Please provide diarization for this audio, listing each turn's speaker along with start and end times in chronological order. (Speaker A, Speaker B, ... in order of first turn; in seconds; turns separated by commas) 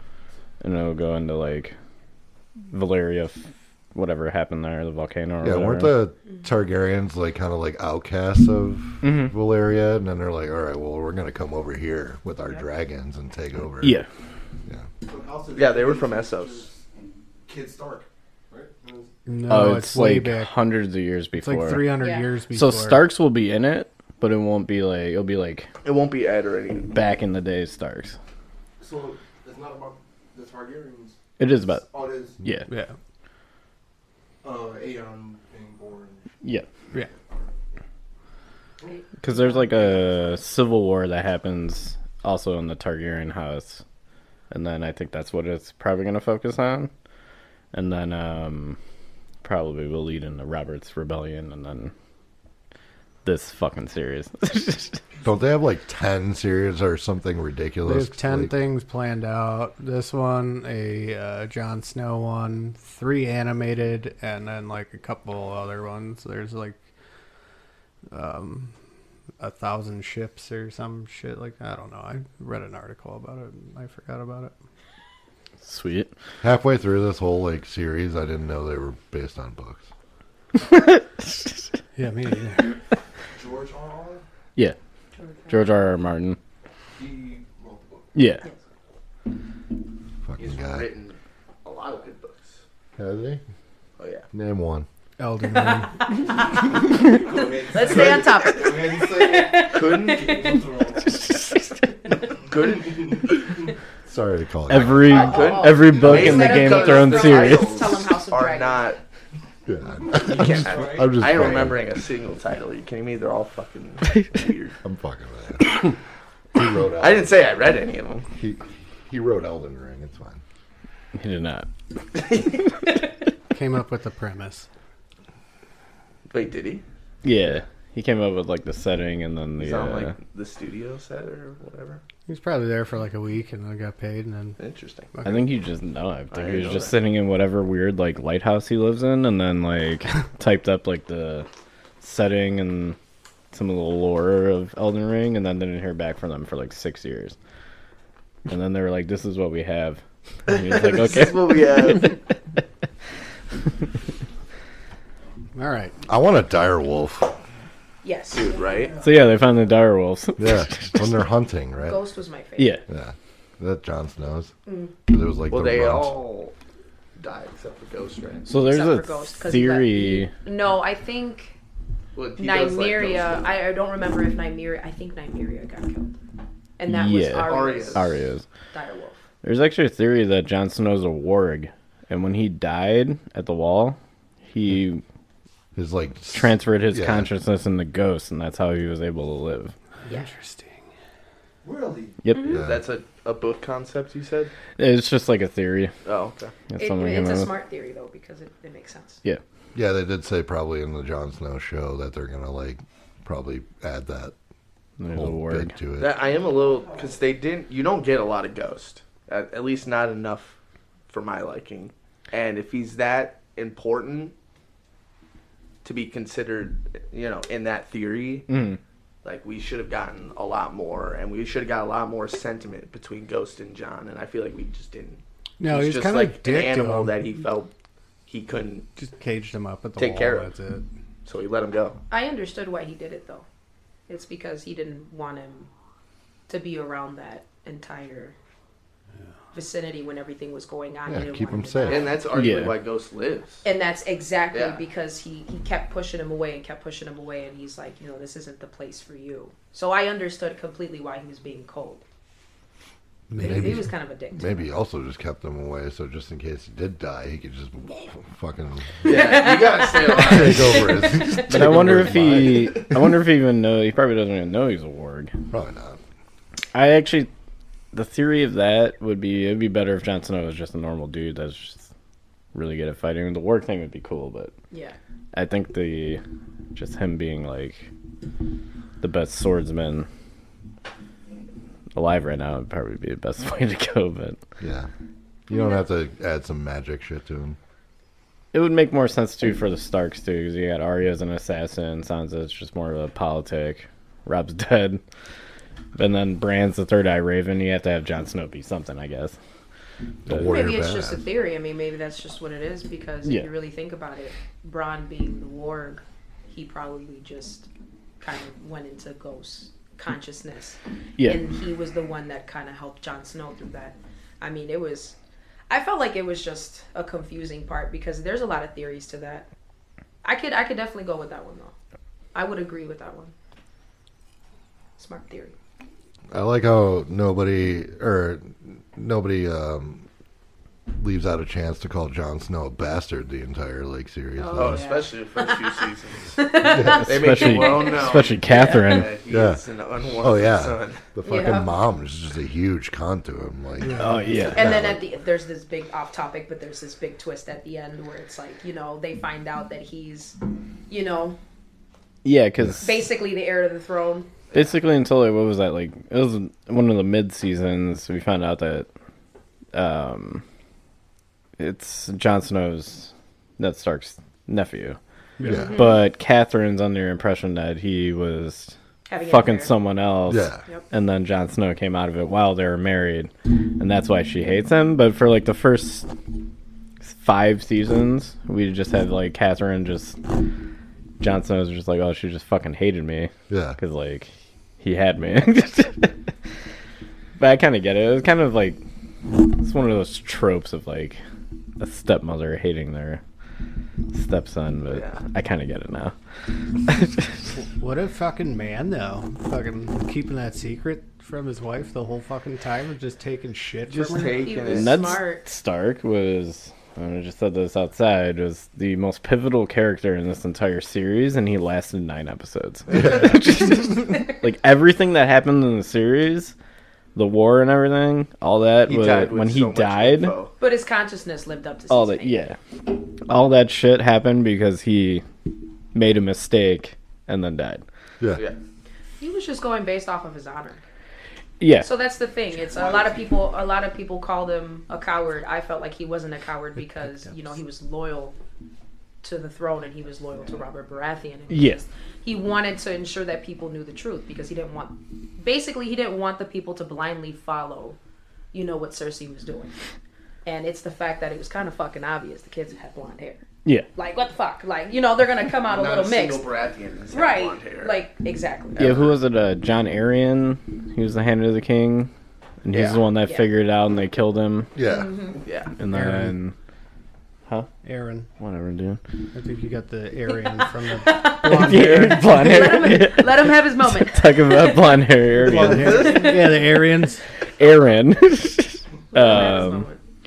Speaker A: 0.6-1.7, Speaker A: 2.7-6.0, Speaker B: 5.4-14.0, Speaker A: 9.0-9.3, Speaker A: 13.8-14.1, Speaker C: 15.0-16.8, Speaker D: 15.5-16.6, Speaker C: 17.5-19.1, Speaker E: 19.2-20.5, Speaker A: 19.5-21.9, Speaker E: 21.4-23.0, Speaker F: 22.0-22.3, Speaker A: 22.5-25.7, Speaker D: 25.8-26.9, Speaker A: 26.9-28.1, Speaker C: 28.8-32.4, Speaker A: 31.4-31.9, Speaker A: 32.4-32.7, Speaker E: 32.7-32.9, Speaker C: 34.4-36.3, Speaker A: 39.2-43.8, Speaker A: 44.5-46.9, Speaker A: 47.7-48.8, Speaker A: 49.4-51.9, Speaker A: 53.2-55.0, Speaker B: 55.2-58.5, Speaker E: 57.8-66.8, Speaker E: 68.1-68.7, Speaker E: 69.4-74.5, Speaker A: 75.6-76.1, Speaker B: 76.4-79.8, Speaker A: 80.7-81.5, Speaker E: 82.0-82.8, Speaker C: 83.3-84.2, Speaker F: 85.2-85.7, Speaker A: 85.5-86.4, Speaker C: 86.9-88.1, Speaker A: 88.1-88.4, Speaker B: 90.2-90.9, Speaker D: 90.4-92.6, Speaker B: 93.0-93.4, Speaker D: 94.0-94.2, Speaker B: 94.3-94.9, Speaker E: 95.2-96.0, Speaker F: 95.5-100.6, Speaker C: 96.4-101.3, Speaker D: 99.7-100.3, Speaker D: 102.5-103.3, Speaker C: 102.6-103.3, Speaker B: 104.1-105.1, Speaker A: 104.7-108.0, Speaker D: 104.7-109.0, Speaker F: 105.1-108.9, Speaker B: 109.7-111.8, Speaker D: 110.2-114.7, Speaker C: 110.3-111.6, Speaker B: 114.8-115.9, Speaker B: 116.5-117.3, Speaker D: 117.0-118.3, Speaker B: 118.4-120.4, Speaker A: 121.1-121.7, Speaker E: 123.5-124.7, Speaker D: 126.3-126.8, Speaker A: 127.2-130.1, Speaker D: 129.6-132.0, Speaker E: 132.3-134.6, Speaker D: 134.6-135.1, Speaker E: 135.1-135.5, Speaker A: 135.2-141.5, Speaker D: 136.3-136.9, Speaker A: 142.0-143.0, Speaker A: 143.5-147.3, Speaker A: 148.5-152.2, Speaker D: 150.5-152.2, Speaker E: 155.5-155.9, Speaker B: 156.1-157.3, Speaker F: 158.0-158.6, Speaker D: 158.3-159.0, Speaker A: 159.0-161.1, Speaker B: 160.4-162.0, Speaker F: 161.8-162.8, Speaker A: 162.6-162.8, Speaker B: 162.9-164.5, Speaker F: 164.7-164.9, Speaker B: 165.1-166.2, Speaker D: 165.5-166.5, Speaker D: 167.2-168.5, Speaker A: 168.4-170.3, Speaker F: 168.6-171.5, Speaker D: 172.1-173.5, Speaker F: 172.4-176.2, Speaker F: 176.8-178.2, Speaker A: 176.9-178.4, Speaker D: 177.4-178.1, Speaker F: 178.7-179.2, Speaker A: 179.4-184.0, Speaker A: 184.5-185.0, Speaker B: 185.7-187.3, Speaker A: 186.3-189.7, Speaker E: 190.0-190.8, Speaker C: 191.6-192.2, Speaker A: 192.2-192.5, Speaker F: 192.3-192.6, Speaker B: 192.5-192.8, Speaker D: 192.5-194.5, Speaker A: 194.8-195.9, Speaker D: 196.0-196.5, Speaker A: 196.7-197.5, Speaker F: 196.8-199.2, Speaker B: 199.7-204.3, Speaker A: 205.0-205.7, Speaker B: 205.1-206.2, Speaker D: 206.0-210.6, Speaker C: 206.7-207.0, Speaker D: 211.1-214.3, Speaker D: 215.8-218.5, Speaker A: 218.5-218.8, Speaker D: 219.2-227.7, Speaker E: 225.6-227.3, Speaker D: 228.3-228.8, Speaker E: 229.0-230.8, Speaker D: 229.9-230.5, Speaker D: 231.2-232.0, Speaker F: 232.1-233.4, Speaker F: 234.1-235.7, Speaker F: 236.5-238.3, Speaker F: 239.5-242.2, Speaker B: 241.1-242.1, Speaker D: 241.9-243.6, Speaker A: 242.3-242.7, Speaker F: 243.6-252.0, Speaker D: 244.5-244.8, Speaker B: 253.3-259.3, Speaker F: 253.4-254.7, Speaker D: 259.0-261.0, Speaker F: 259.1-261.5, Speaker B: 260.2-262.9, Speaker A: 261.4-265.3, Speaker B: 265.5-266.0, Speaker A: 266.7-267.3, Speaker A: 267.9-271.9, Speaker A: 272.5-274.5, Speaker F: 274.7-275.0, Speaker A: 275.3-276.2, Speaker A: 276.7-277.9, Speaker A: 279.0-280.1, Speaker A: 281.9-284.4, Speaker B: 284.6-284.9, Speaker B: 285.5-287.6, Speaker F: 285.5-285.8, Speaker A: 288.5-295.0, Speaker A: 295.9-299.4, Speaker B: 300.2-301.2, Speaker F: 300.3-307.7, Speaker A: 303.2-303.5, Speaker F: 308.2-315.1, Speaker F: 315.7-319.5, Speaker F: 320.2-321.7, Speaker F: 322.3-323.3, Speaker F: 325.0-325.5, Speaker B: 326.3-330.1, Speaker B: 330.9-334.8, Speaker F: 334.4-335.7, Speaker D: 334.5-341.0, Speaker F: 336.4-339.0, Speaker A: 336.7-339.1, Speaker B: 336.8-337.0, Speaker B: 339.3-339.6, Speaker B: 340.1-345.0, Speaker F: 341.2-341.8, Speaker E: 343.9-344.3, Speaker A: 344.0-344.6, Speaker F: 344.5-350.4, Speaker F: 350.9-351.4, Speaker A: 352.2-353.0, Speaker F: 352.8-354.3, Speaker A: 354.5-358.9, Speaker A: 359.7-360.4, Speaker A: 361.6-365.0, Speaker E: 365.4-365.8, Speaker B: 365.4-365.8, Speaker F: 365.5-366.0, Speaker A: 365.7-368.7, Speaker F: 369.1-369.7, Speaker A: 369.3-376.1, Speaker B: 370.3-370.6, Speaker A: 377.0-380.2, Speaker A: 381.2-384.3, Speaker B: 383.5-383.8, Speaker A: 384.8-386.1, Speaker A: 387.4-388.8, Speaker A: 389.4-391.2, Speaker A: 391.8-393.2, Speaker A: 394.1-396.1, Speaker D: 394.9-395.2, Speaker A: 396.9-397.4, Speaker E: 397.8-404.5, Speaker D: 403.9-405.2, Speaker F: 404.2-405.5, Speaker A: 404.7-416.5, Speaker A: 417.1-420.4, Speaker D: 418.9-420.5, Speaker F: 420.6-422.4, Speaker A: 421.9-422.6, Speaker A: 423.2-425.2, Speaker A: 425.9-427.8, Speaker F: 429.2-430.8, Speaker A: 431.6-431.9, Speaker F: 431.8-438.4, Speaker C: 432.7-433.2, Speaker F: 439.2-448.0, Speaker A: 441.5-441.8, Speaker F: 448.5-449.7, Speaker F: 450.4-453.4, Speaker F: 453.9-456.5, Speaker D: 455.6-458.0, Speaker F: 457.1-459.0, Speaker A: 458.8-462.1, Speaker A: 462.6-464.7, Speaker D: 462.7-463.0, Speaker F: 463.2-463.5, Speaker B: 464.7-465.1, Speaker F: 464.8-465.4, Speaker D: 465.4-465.7, Speaker A: 465.8-466.5, Speaker E: 465.9-466.4, Speaker E: 467.8-468.3, Speaker A: 468.4-469.0, Speaker E: 469.3-472.5, Speaker F: 470.9-474.9, Speaker A: 471.4-476.2, Speaker E: 475.4-477.2, Speaker D: 475.5-476.4, Speaker A: 477.6-479.9, Speaker F: 479.1-480.0